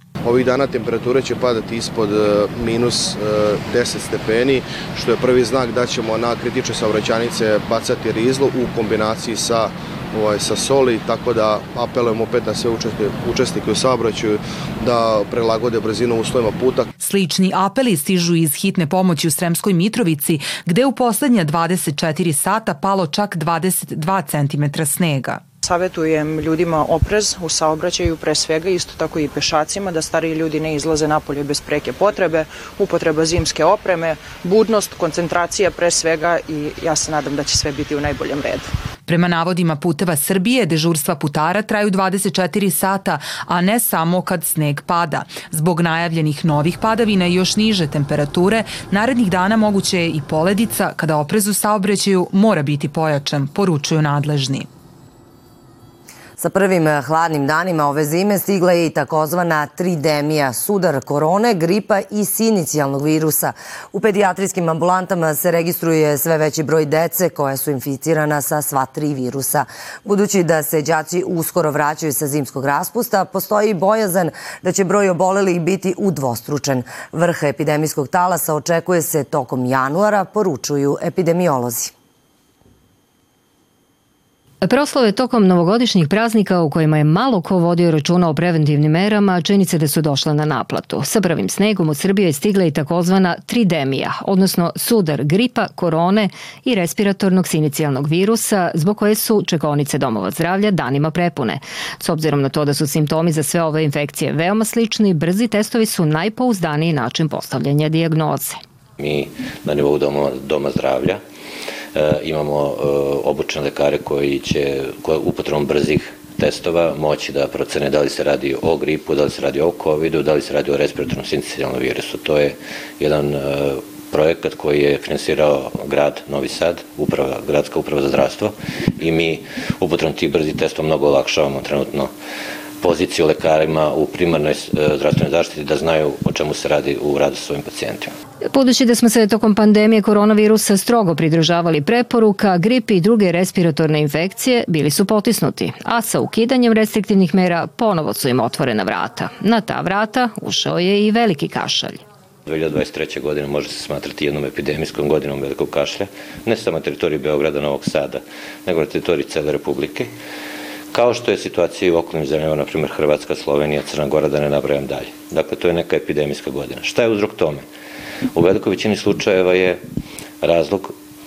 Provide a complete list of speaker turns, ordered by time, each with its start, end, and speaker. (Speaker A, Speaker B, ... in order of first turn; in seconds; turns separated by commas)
Speaker A: 0.3-16.8, Speaker B: 17.0-25.4, Speaker C: 25.6-38.7, Speaker B: 39.1-54.7, Speaker D: 56.4-81.9, Speaker E: 84.6-108.6, Speaker F: 109.0-111.2, Speaker F: 112.0-132.1, Speaker F: 132.8-138.1, Speaker E: 138.5-152.0, Speaker F: 152.5-160.1, Speaker F: 160.9-167.7, Speaker F: 168.3-169.8, Speaker F: 170.4-171.0